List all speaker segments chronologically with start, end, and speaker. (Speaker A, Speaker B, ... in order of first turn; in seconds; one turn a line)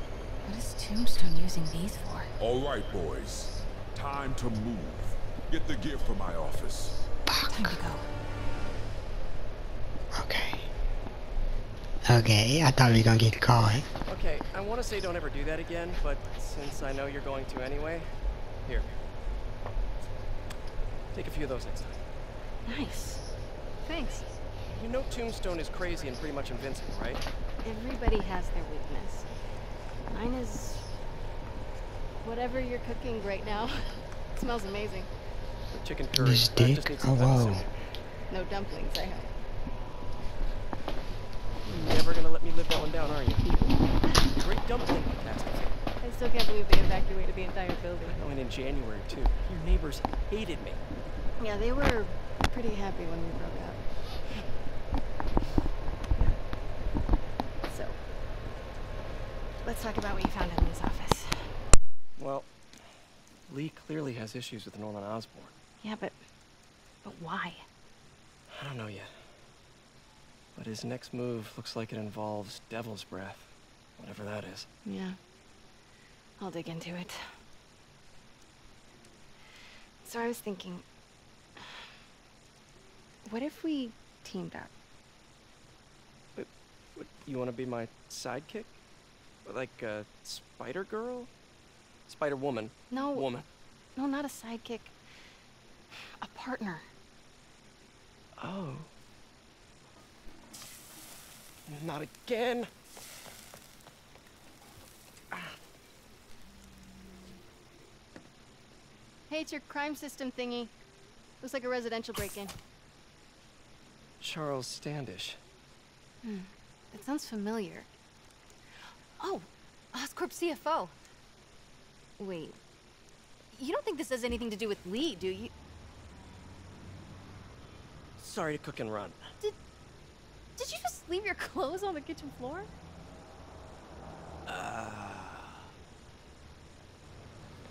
Speaker A: 0.4-2.3
Speaker B: 2.4-7.0
Speaker C: 7.3-7.8
Speaker A: 7.5-8.1
Speaker C: 10.1-10.7
Speaker C: 12.0-13.8
Speaker D: 14.1-18.1
Speaker D: 18.6-18.9
Speaker D: 21.1-22.0
Speaker E: 22.6-23.2
Speaker E: 23.8-24.2
Speaker D: 24.7-27.2
Speaker E: 27.6-29.3
Speaker E: 30.1-30.9
Speaker E: 32.2-35.1
Speaker D: 35.7-37.6
Speaker C: 36.2-37.6
Speaker E: 38.3-39.3
Speaker D: 41.7-43.5
Speaker E: 43.4-44.2
Speaker D: 44.3-45.8
Speaker E: 46.0-48.2
Speaker D: 48.0-50.8
Speaker E: 51.4-53.8
Speaker E: 57.7-58.0
Speaker E: 59.6-61.5
Speaker D: 62.2-62.5
Speaker D: 63.5-65.5
Speaker E: 65.8-66.2
Speaker E: 67.0-67.6
Speaker D: 68.5-69.1
Speaker D: 70.5-74.7
Speaker E: 74.8-75.2
Speaker E: 76.4-77.2
Speaker E: 80.0-80.8
Speaker E: 83.2-84.7
Speaker D: 86.3-88.7
Speaker D: 89.4-91.3
Speaker D: 92.1-93.5
Speaker E: 92.9-93.3
Speaker E: 94.0-94.9
Speaker E: 96.2-96.8
Speaker D: 98.4-98.9
Speaker D: 101.7-102.7
Speaker E: 109.3-110.7
Speaker E: 111.4-112.5
Speaker D: 114.2-115.4
Speaker E: 116.2-117.8
Speaker E: 119.2-120.9
Speaker E: 122.2-122.6
Speaker E: 123.5-125.5
Speaker D: 128.2-129.2
Speaker E: 130.6-132.7
Speaker D: 134.5-135.6